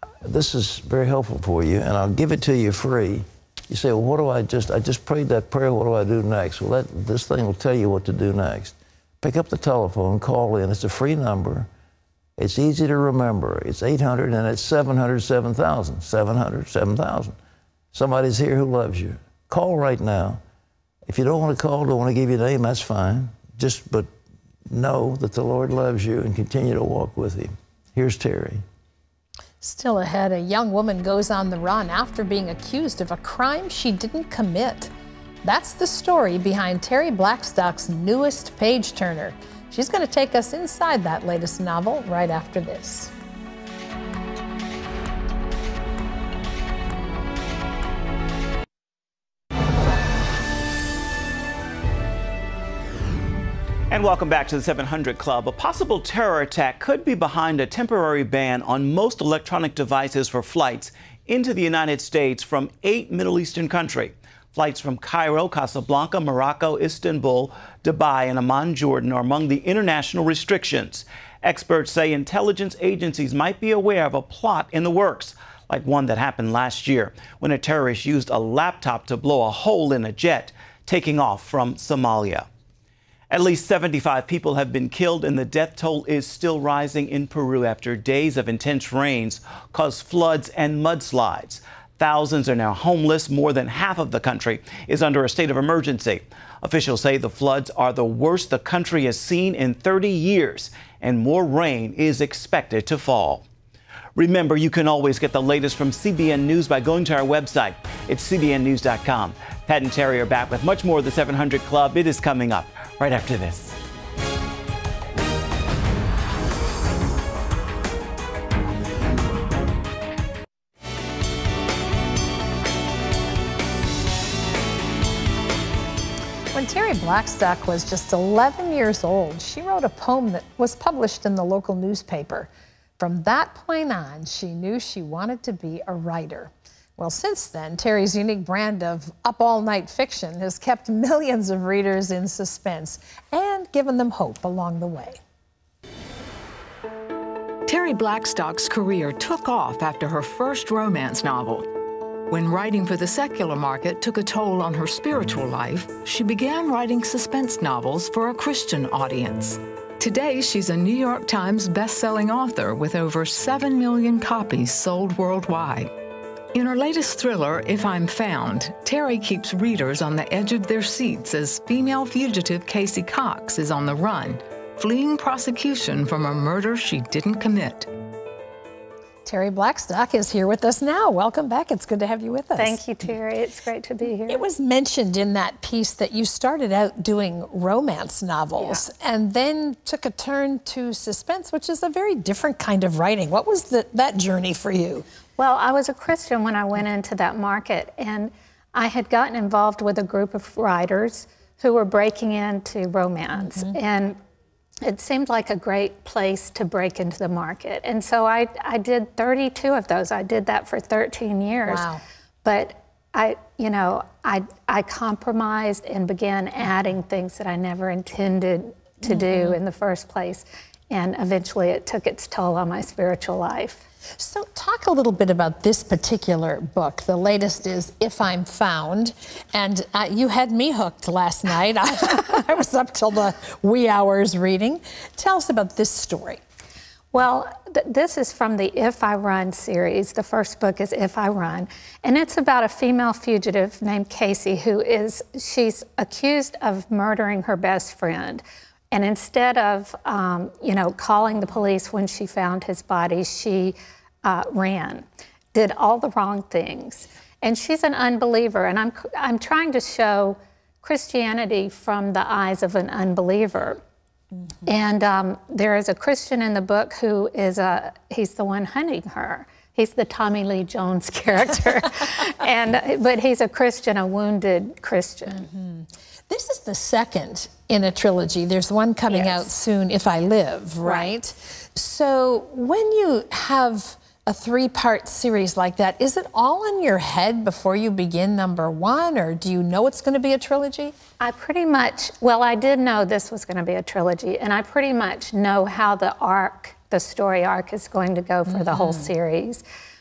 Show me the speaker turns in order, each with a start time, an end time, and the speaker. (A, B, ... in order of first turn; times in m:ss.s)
0:00.2-0:11.7 A
0:12.4-0:17.4 A
0:17.9-0:20.4 A
0:21.1-0:24.1 A
0:24.7-0:28.6 A
0:29.6-0:34.9 B
0:35.4-0:43.1 B
0:53.9-1:22.4 C
1:23.3-1:43.4 C
1:44.2-1:53.7 C
2:06.5-2:25.2 B
2:27.7-2:31.6 D
2:32.3-2:45.9 D
2:46.5-2:57.9 D
2:59.2-3:02.8 B
3:02.6-3:04.4 E
3:04.3-3:15.1 B
3:08.6-3:08.8 E
3:15.4-3:24.2 E
3:23.4-3:23.8 B
3:24.8-3:31.9 E
3:31.7-3:32.0 B
3:32.4-3:43.8 E
3:39.1-3:39.6 B
3:44.2-3:56.4 B
3:57.1-4:23.8 E
4:24.7-4:35.5 E
4:35.3-4:51.0 B
4:39.1-4:39.5 E
4:40.8-4:41.2 E
4:51.2-4:59.6 E
4:58.5-4:59.1 B